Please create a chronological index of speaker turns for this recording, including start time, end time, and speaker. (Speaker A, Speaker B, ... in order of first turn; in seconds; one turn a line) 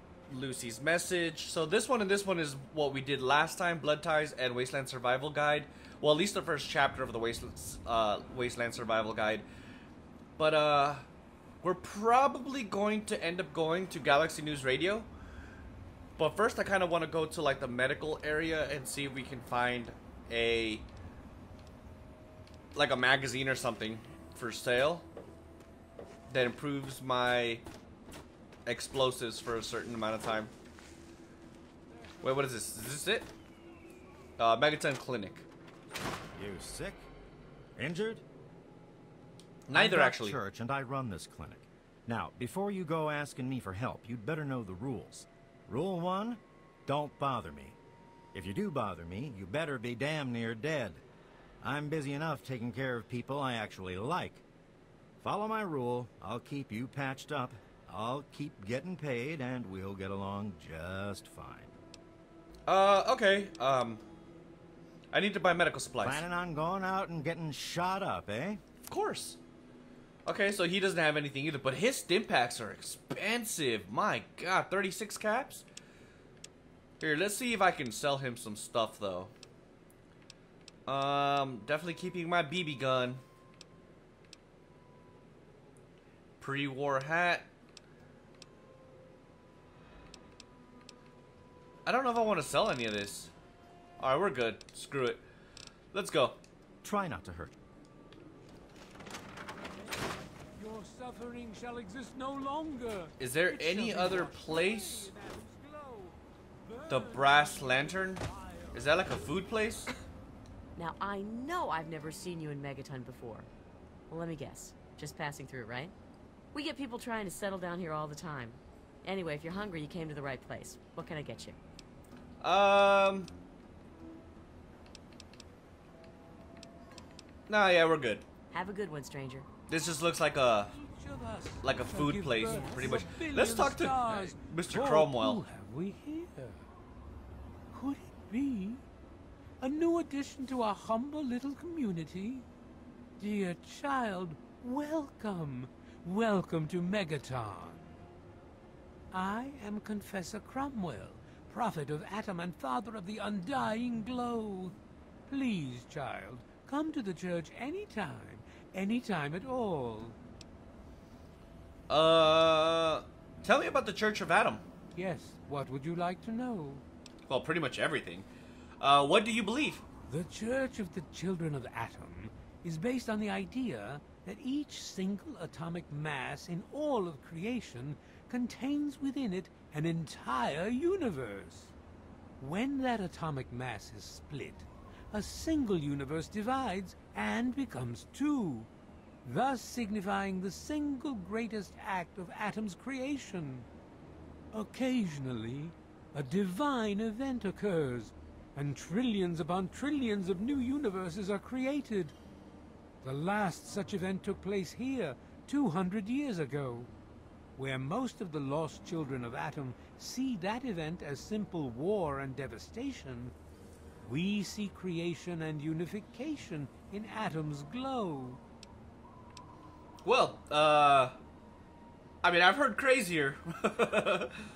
Speaker A: 0.3-9.4
Speaker A: 10.4-11.0
Speaker A: 11.6-15.1
Speaker A: 16.2-20.8
Speaker A: 22.7-25.1
Speaker A: 26.3-27.6
Speaker A: 28.6-30.5
Speaker A: 32.2-33.3
Speaker A: 34.4-35.4
Speaker B: 36.4-37.1
Speaker B: 37.8-38.2
Speaker A: 39.7-40.4
Speaker B: 39.7-47.8
Speaker B: 48.3-51.0
Speaker B: 51.6-54.4
Speaker B: 55.2-61.7
Speaker A: 62.7-64.0
Speaker A: 65.1-66.2
Speaker B: 66.0-68.6
Speaker A: 68.8-69.4
Speaker A: 70.2-75.6
Speaker A: 77.0-79.3
Speaker A: 80.9-83.2
Speaker A: 86.4-87.5
Speaker A: 91.8-93.3
Speaker A: 94.0-95.2
Speaker A: 95.9-96.4
Speaker B: 96.8-97.5
Speaker C: 99.7-109.0
Speaker A: 103.2-105.1
Speaker A: 106.9-109.9
Speaker D: 110.7-113.5
Speaker D: 114.1-115.9
Speaker D: 116.5-121.6
Speaker A: 122.4-123.3
Speaker A: 127.5-128.2
Speaker D: 128.5-129.5
Speaker A: 129.7-130.7
Speaker C: 130.7-136.6
Speaker A: 131.6-135.4
Speaker C: 137.7-138.8
Speaker C: 139.6-142.4
Speaker C: 143.2-147.9
Speaker C: 149.1-154.7
Speaker C: 155.3-160.2
Speaker A: 161.9-164.6
Speaker C: 164.9-166.8
Speaker A: 167.3-168.3
Speaker A: 168.8-169.8
Speaker C: 170.1-181.7
Speaker C: 182.4-188.7
Speaker C: 189.2-193.7
Speaker C: 194.5-202.1
Speaker C: 203.0-206.9
Speaker C: 207.6-213.3
Speaker C: 214.0-218.4
Speaker A: 220.0-221.2
Speaker A: 222.2-224.3